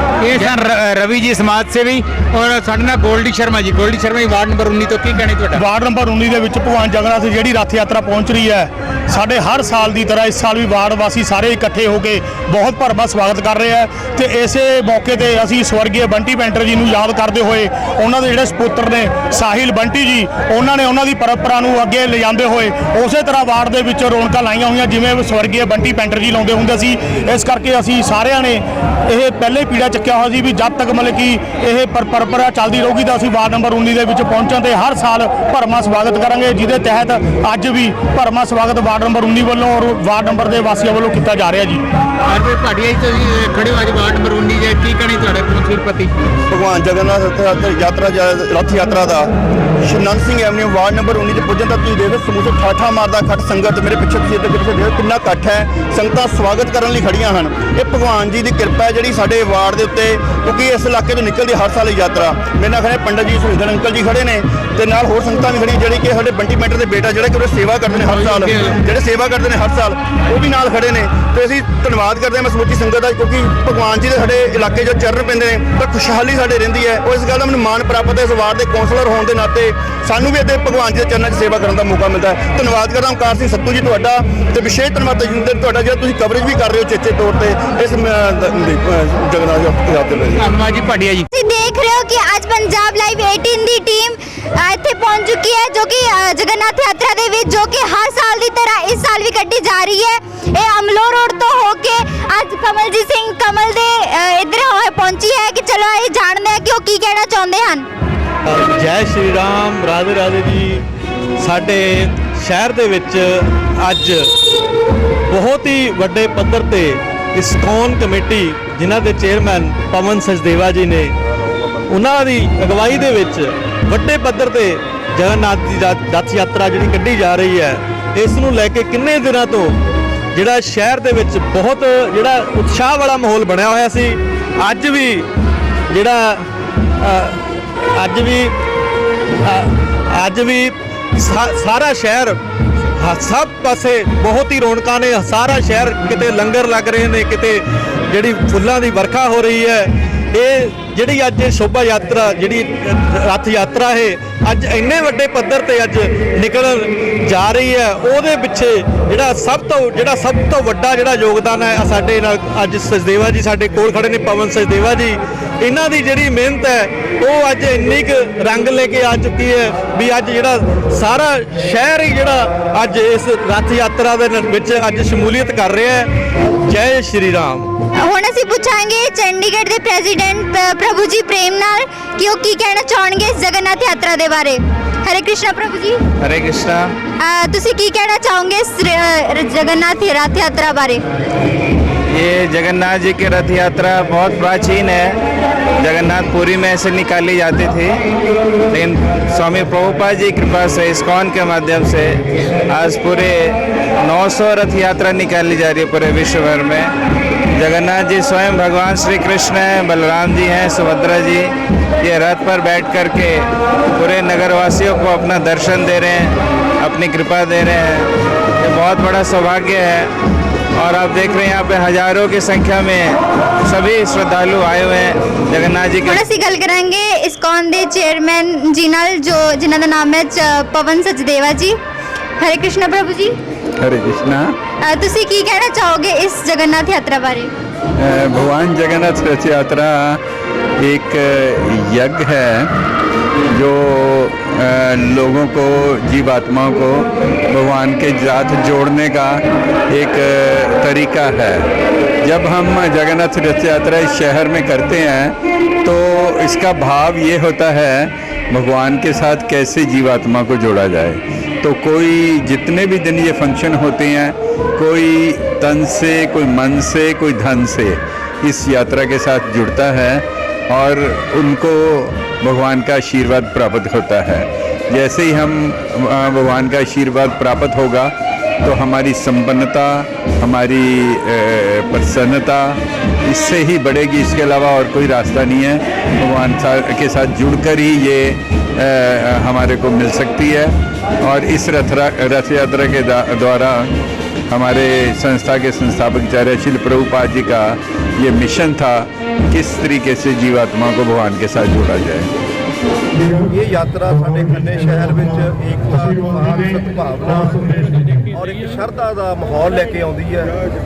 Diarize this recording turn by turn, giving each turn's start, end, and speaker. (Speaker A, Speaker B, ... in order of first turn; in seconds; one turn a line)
Speaker A: 0.2-5.6
Speaker B: 5.5-41.8
Speaker A: 42.3-46.1
Speaker C: 46.5-49.3
Speaker C: 49.8-90.5
Speaker A: 90.4-91.2
Speaker D: 91.3-107.9
Speaker E: 108.5-110.8
Speaker E: 111.4-114.3
Speaker E: 115.3-121.2
Speaker E: 121.9-129.8
Speaker E: 130.3-135.3
Speaker E: 135.9-136.4
Speaker E: 137.0-138.5
Speaker E: 139.4-142.4
Speaker E: 143.0-176.1
Speaker E: 176.7-177.7
Speaker D: 178.0-186.0
Speaker F: 186.2-186.9
Speaker D: 187.2-191.0
Speaker F: 192.1-195.2
Speaker F: 195.8-198.0
Speaker F: 198.7-207.0
Speaker F: 207.6-218.1
Speaker F: 218.6-220.1
Speaker F: 220.8-226.2
Speaker D: 226.0-231.8
Speaker D: 232.4-233.4
Speaker G: 233.8-234.5
Speaker D: 234.8-237.5
Speaker G: 238.0-240.2
Speaker G: 240.8-242.7
Speaker G: 243.5-251.7
Speaker G: 252.2-278.1
Speaker G: 278.6-293.9
Speaker G: 294.5-302.3
Speaker H: 303.5-310.5